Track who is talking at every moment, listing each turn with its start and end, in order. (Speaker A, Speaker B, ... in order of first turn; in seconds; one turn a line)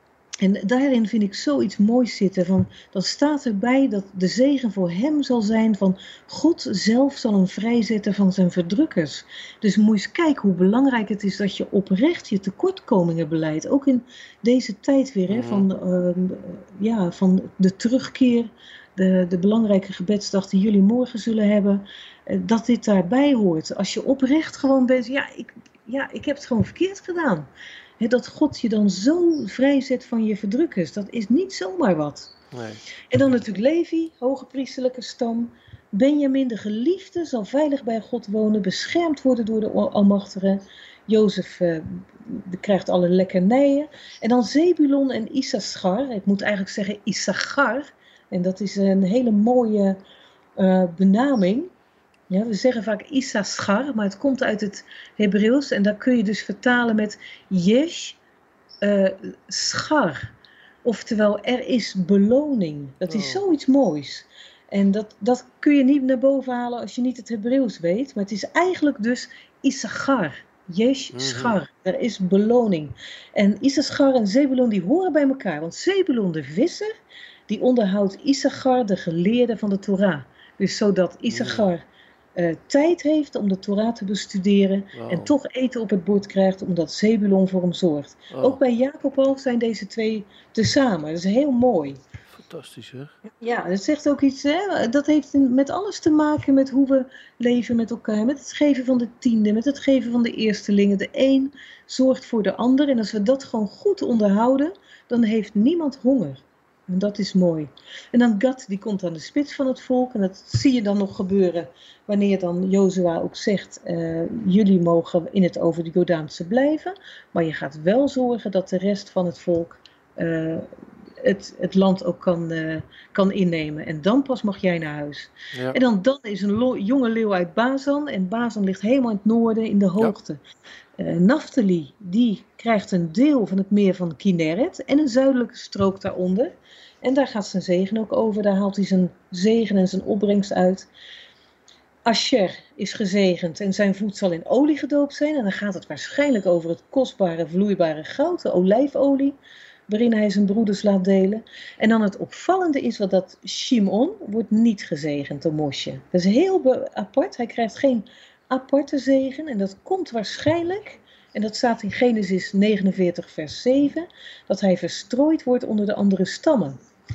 Speaker A: 0.4-27.5
Speaker B: 15.3-15.7
Speaker A: 28.0-32.3
Speaker B: 32.5-32.8
Speaker A: 33.1-50.0
Speaker A: 50.6-51.7
Speaker A: 52.3-58.2
Speaker A: 58.8-60.3
Speaker A: 60.8-76.9
Speaker B: 63.1-63.4
Speaker B: 71.2-71.6
Speaker A: 77.5-81.8
Speaker B: 81.3-81.6
Speaker A: 82.4-92.0
Speaker B: 85.0-85.3
Speaker B: 88.3-88.6
Speaker B: 92.4-93.2
Speaker A: 93.3-120.7
Speaker A: 121.2-130.4
Speaker A: 131.0-140.9
Speaker A: 142.1-149.4
Speaker A: 149.9-166.8